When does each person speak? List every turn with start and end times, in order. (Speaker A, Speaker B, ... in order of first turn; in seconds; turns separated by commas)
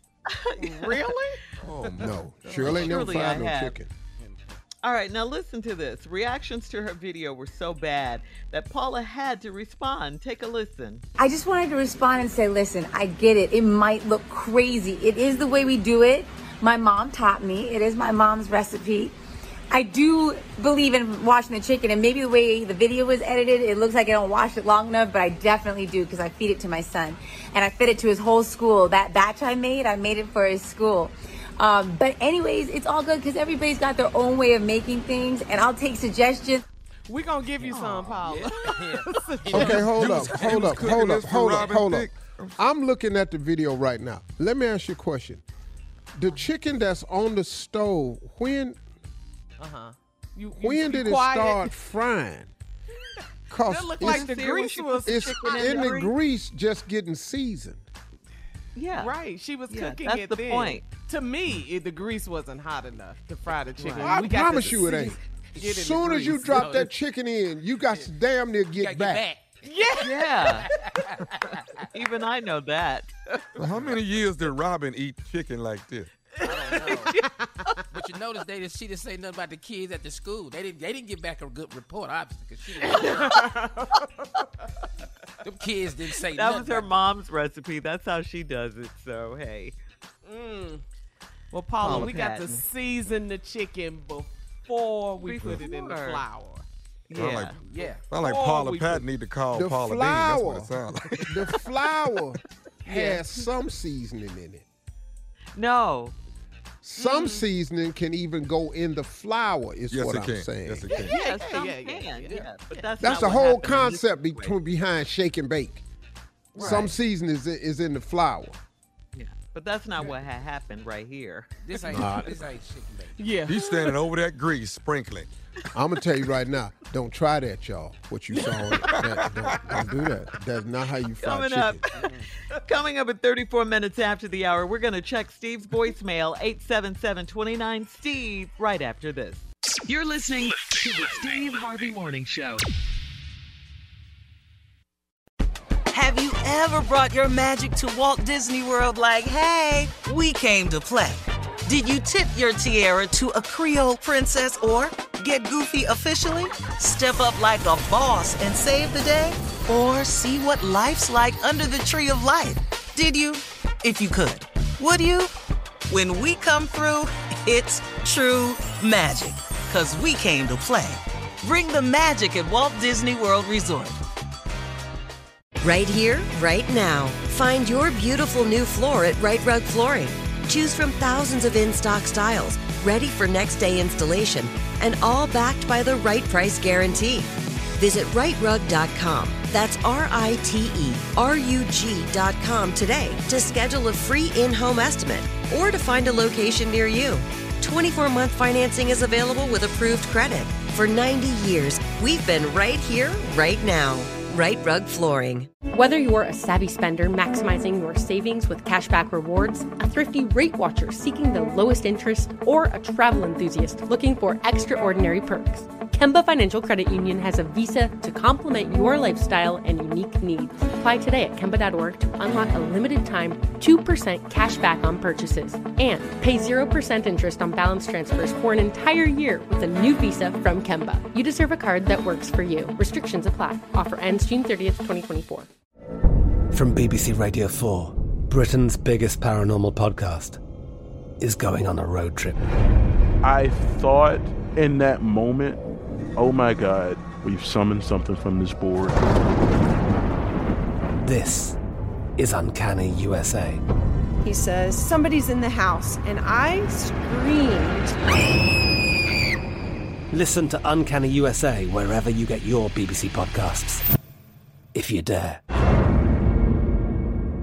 Speaker A: 0.3-1.2, Speaker B: 0.6-1.4, Speaker C: 1.7-3.9, Speaker A: 2.5-3.8, Speaker D: 2.6-2.9, Speaker A: 4.8-11.0, Speaker E: 11.2-19.1, Speaker E: 19.7-36.6, Speaker B: 37.1-40.5, Speaker A: 37.6-38.3, Speaker F: 38.3-39.1, Speaker D: 39.5-42.5, Speaker C: 39.5-45.4, Speaker C: 46.2-48.8, Speaker B: 49.6-51.7, Speaker C: 50.6-52.5, Speaker C: 53.5-54.3, Speaker B: 53.6-55.9, Speaker A: 54.0-56.1, Speaker C: 55.0-57.9, Speaker A: 58.8-59.2, Speaker B: 59.0-66.9, Speaker A: 59.7-60.9, Speaker A: 63.5-64.3, Speaker C: 64.0-69.3, Speaker F: 68.8-69.5, Speaker B: 69.6-70.1, Speaker A: 70.0-70.7, Speaker A: 71.9-73.1, Speaker D: 73.6-76.1, Speaker A: 76.6-77.1, Speaker F: 76.7-77.0, Speaker B: 77.2-77.4, Speaker F: 78.0-82.8, Speaker B: 82.9-83.8, Speaker F: 85.5-86.8, Speaker A: 86.2-89.8, Speaker B: 90.3-90.8, Speaker B: 91.5-96.7, Speaker A: 91.8-92.6, Speaker A: 95.1-96.3, Speaker A: 97.1-97.6, Speaker D: 97.2-97.5, Speaker F: 97.7-98.1, Speaker D: 98.1-101.1, Speaker B: 98.1-99.1, Speaker C: 99.5-104.7, Speaker B: 102.8-103.4, Speaker A: 105.5-106.2, Speaker C: 106.8-110.9, Speaker B: 107.0-107.5, Speaker D: 109.9-111.1, Speaker A: 110.9-114.6, Speaker B: 111.0-113.1, Speaker C: 113.0-115.8, Speaker A: 116.5-117.0, Speaker B: 116.6-116.8, Speaker C: 116.6-118.6, Speaker A: 119.2-121.9, Speaker F: 121.7-123.2, Speaker C: 121.9-122.4, Speaker B: 123.2-124.0, Speaker D: 123.5-125.3, Speaker C: 125.7-131.8, Speaker A: 131.2-131.9, Speaker A: 132.7-139.5, Speaker G: 140.2-140.5, Speaker A: 141.1-141.4, Speaker G: 145.9-165.3, Speaker G: 165.9-174.0, Speaker H: 175.6-205.5, Speaker I: 205.7-235.5, Speaker J: 236.5-240.4, Speaker J: 241.2-242.4, Speaker K: 243.2-245.6, Speaker K: 246.2-249.0, Speaker J: 251.0-251.6, Speaker J: 252.2-253.6, Speaker L: 254.3-257.9, Speaker J: 260.1-263.8, Speaker J: 264.7-265.4